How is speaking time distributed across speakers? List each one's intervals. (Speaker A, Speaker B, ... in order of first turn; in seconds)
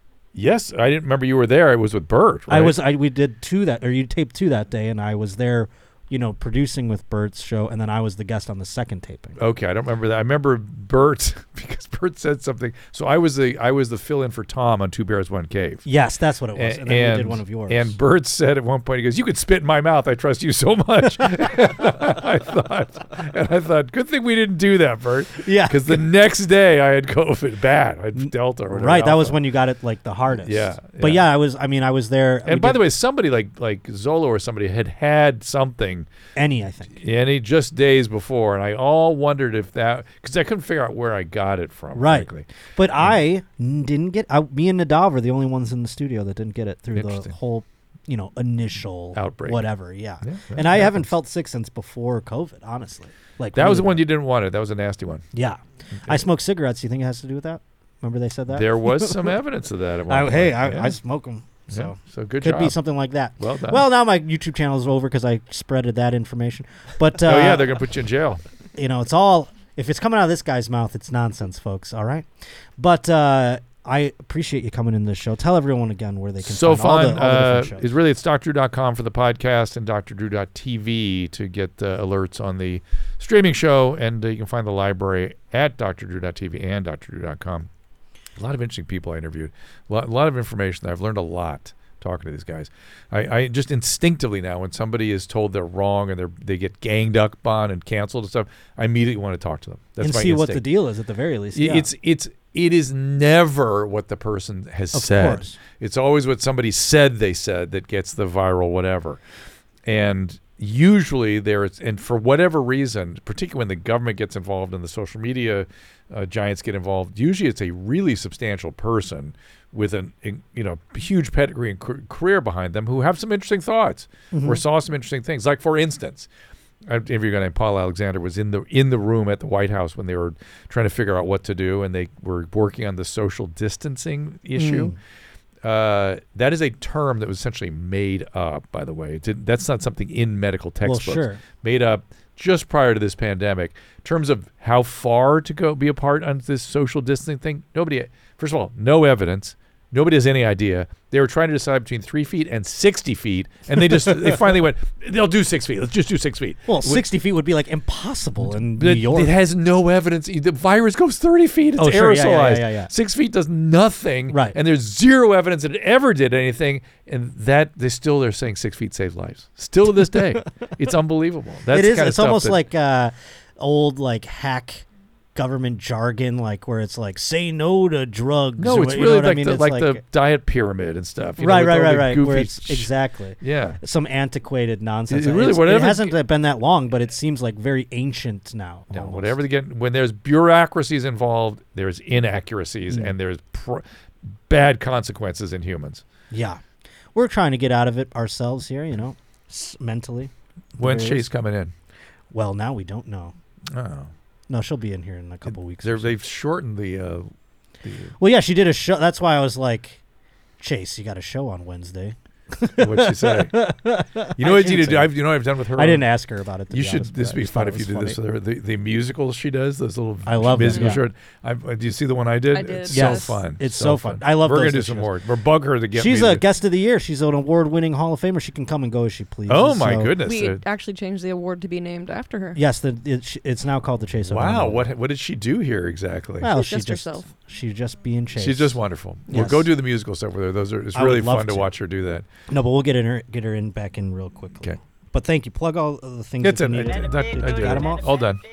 Speaker A: 0.3-2.8, 9.4-15.8, 16.5-29.4, 30.3-31.3, 32.4-36.1, 36.9-42.5, 46.9-47.3, 49.1-49.6, 50.2-51.1, 53.5-55.2, 58.5-61.0, 61.7-62.8, 63.4-63.9, 67.2-68.4, 76.4-87.7, 88.4-100.6, 101.5-109.2, 109.8-126.3, 126.8-134.9, 135.6-157.1, 158.5-172.6, 178.6-183.8, 185.1-186.1, 188.9-196.0, 200.8-201.7, 203.7-204.1, 205.5-208.2, 212.8-213.6, 214.4-216.1, 216.7-226.4, 229.5-230.6, 234.3-236.5, 238.3-242.3, 246.4-248.4
Speaker B: 2.5-9.4, 15.8-17.9, 25.4-26.1, 28.1-32.8, 36.4-37.0, 41.9-54.0, 55.3-59.4, 60.1-67.8, 68.8-77.8, 100.0-101.9, 104.9-105.6, 124.3-124.6, 134.5-134.9, 140.8-141.4, 156.7-159.3, 161.8-162.9, 164.3-164.6, 171.7-180.0, 181.4-189.4, 196.3-196.6, 197.1-201.3, 202.3-203.3, 204.5-206.1, 208.2-210.0, 210.6-215.1, 215.8-218.2, 220.2-221.0, 222.9-225.1, 225.9-230.2, 232.6-234.9, 236.4-239.7, 240.9-241.7, 242.5-248.1
Speaker C: 220.6-221.0, 222.5-223.4, 230.2-232.6, 236.4-237.3